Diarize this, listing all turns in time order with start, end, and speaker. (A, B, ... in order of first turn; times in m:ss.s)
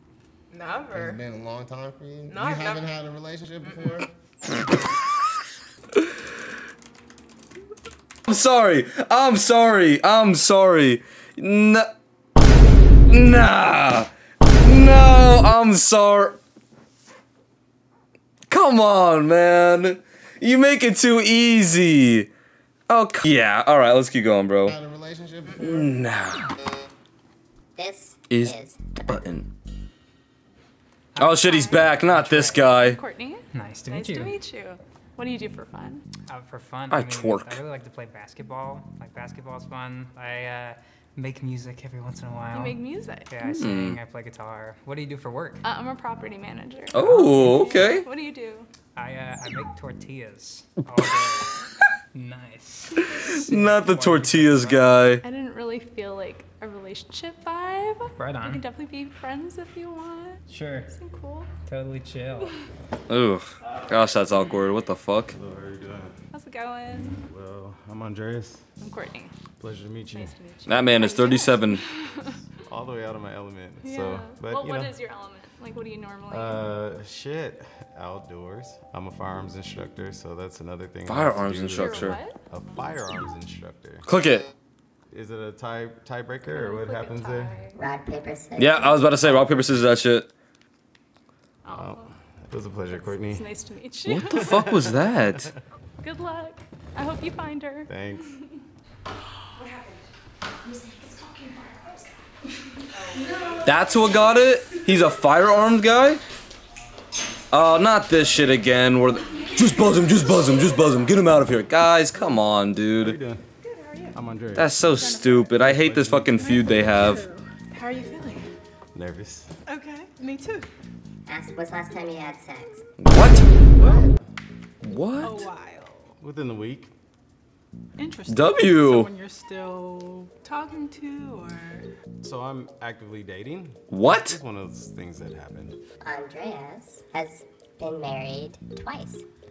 0:00.5-0:01.2 A
0:00.9-0:04.1 B
0:02.3-0:03.0 A
0:08.3-0:11.9 C
0:13.1-0:14.1 C
0:14.6-0:16.4 C
0:18.5-0:22.3 C
0:22.9-0:24.8 C
0:24.6-0:25.9 B
0:25.6-0:26.5 C
0:27.8-0:29.4 D
0:28.3-0:29.5 C
0:31.2-0:32.7 E
0:31.2-0:33.0 C
0:32.8-0:36.0 F
0:33.5-0:34.4 E
0:36.3-0:45.7 E
0:36.9-0:37.6 C
0:42.5-0:43.4 F
0:43.5-0:44.0 C
0:45.6-0:48.7 F
0:46.9-0:48.1 C
0:47.0-0:47.8 E
0:49.0-0:51.6 E
0:52.1-0:55.1 E
0:53.1-0:55.2 C
0:55.2-1:00.4 F
0:58.2-0:58.7 E
1:00.5-1:00.9 E
1:00.9-1:01.6 F
1:01.6-1:02.5 E
1:03.1-1:05.4 C
1:05.3-1:06.1 G
1:06.3-1:07.2 F
1:07.2-1:08.6 G
1:08.8-1:09.3 F
1:09.6-1:10.3 G
1:10.1-1:12.0 F
1:10.7-1:11.8 C
1:12.6-1:15.0 G
1:13.8-1:16.7 F
1:16.3-1:24.0 G
1:21.1-1:22.2 C
1:21.7-1:22.4 F
1:24.1-1:24.5 C
1:25.1-1:27.6 G
1:26.5-1:27.8 F
1:27.7-1:29.0 D
1:28.6-1:30.3 C
1:29.1-1:29.8 G
1:31.6-1:32.0 F
1:31.7-1:33.5 G
1:32.9-1:34.6 F
1:34.1-1:35.5 C
1:34.4-1:35.3 G
1:36.0-1:37.9 F
1:37.9-1:38.3 G
1:39.6-1:40.1 A
1:42.9-1:43.7 A
1:43.6-1:46.2 C
1:47.5-1:53.2 C
1:52.2-1:53.4 G
1:53.6-1:54.2 A
1:54.2-1:54.8 G
1:54.6-1:57.3 C
1:55.5-1:56.4 G
1:57.8-1:58.5 A
1:58.9-1:59.5 G
1:59.7-2:00.6 A
2:01.3-2:02.8 D
2:03.0-2:03.5 C
2:03.8-2:04.2 G
2:04.8-2:05.5 C
2:06.2-2:06.9 G
2:08.3-2:09.1 C
2:10.4-2:11.5 A
2:12.2-2:15.8 G
2:13.9-2:14.4 C
2:16.0-2:19.2 D